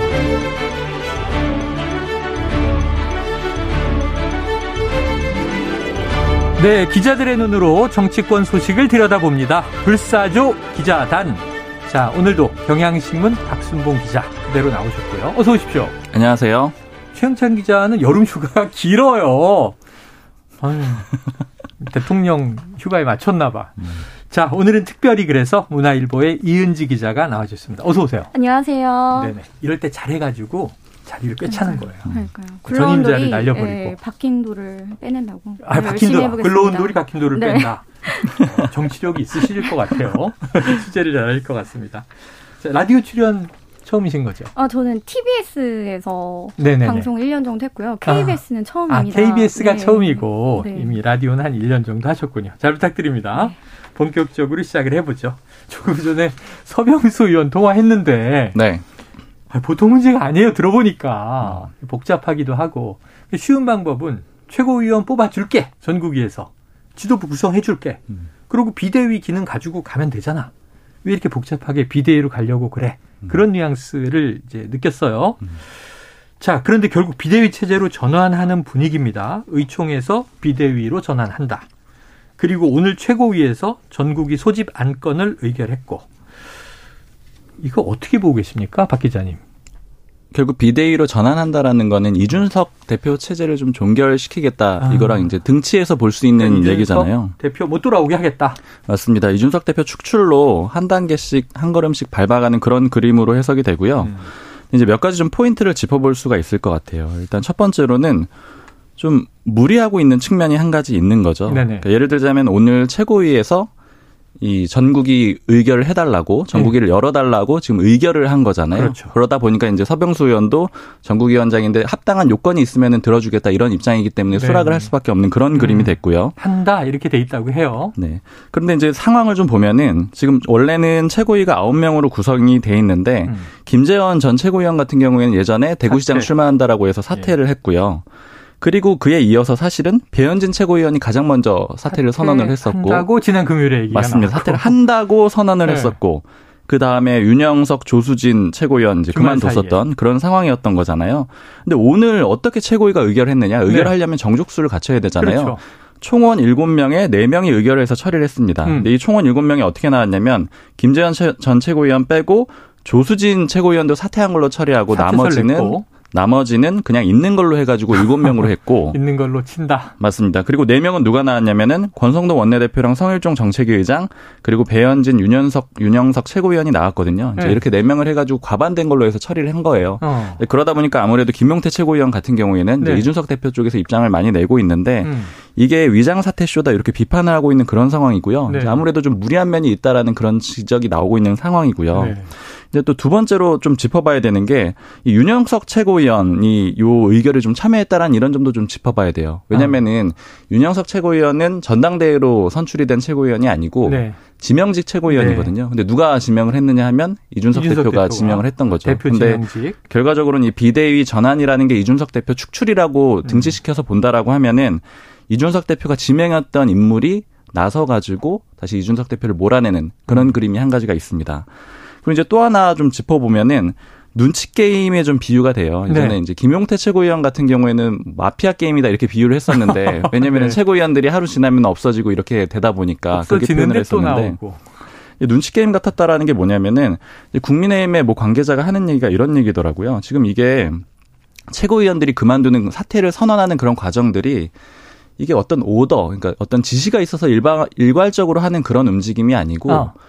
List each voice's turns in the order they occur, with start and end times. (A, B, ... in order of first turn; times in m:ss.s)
0:06.6-0:16.0 A
0:16.1-0:16.8 B
0:17.1-0:19.8 A
0:20.6-0:21.1 A
0:21.8-0:28.3 A
0:28.3-0:29.4 C
0:29.2-0:32.1 A
0:31.5-0:38.4 C
0:32.6-0:34.0 A
0:35.6-0:37.8 A
0:38.4-0:42.1 A
0:42.6-0:44.5 A
0:44.6-0:51.0 C
0:46.6-0:47.1 A
0:48.1-0:58.6 A
0:58.5-0:58.8 B
0:59.5-1:10.5 A
1:11.0-1:15.6 A
1:16.4-1:21.6 A
1:22.4-1:26.1 A
1:27.6-1:29.4 A
1:30.3-1:37.3 B
1:34.8-1:35.3 A
1:36.4-1:38.6 A
1:38.9-1:48.3 B
1:44.0-1:44.3 A
1:49.0-1:53.7 B
1:51.5-1:51.9 A
1:54.4-2:06.4 B
1:58.7-1:59.1 A
2:04.3-2:04.9 A
2:05.5-2:08.0 A
2:08.0-2:18.0 B
2:15.9-2:16.3 A
2:18.6-2:23.1 B
2:21.9-2:24.8 A
2:23.9-2:49.0 B
2:25.6-2:26.0 A
2:29.1-2:29.8 A
2:33.7-2:33.9 A
2:35.2-2:35.6 A
2:38.6-2:38.9 A
2:44.9-2:45.9 A
2:48.9-2:50.0 A
2:50.0-3:41.5 B
3:00.0-3:00.4 A
3:02.8-3:03.1 A
3:05.0-3:05.3 A
3:08.5-3:08.8 A
3:11.9-3:12.3 A
3:23.8-3:24.2 A
3:25.1-3:25.5 A
3:27.5-3:29.8 A
3:33.2-3:33.6 A
3:42.0-3:54.4 B
3:45.9-3:46.2 A
3:49.5-3:50.6 A
3:53.1-3:54.6 A
3:55.2-4:00.8 B
4:01.5-4:04.5 B
4:05.2-4:09.9 B
4:09.7-4:09.9 A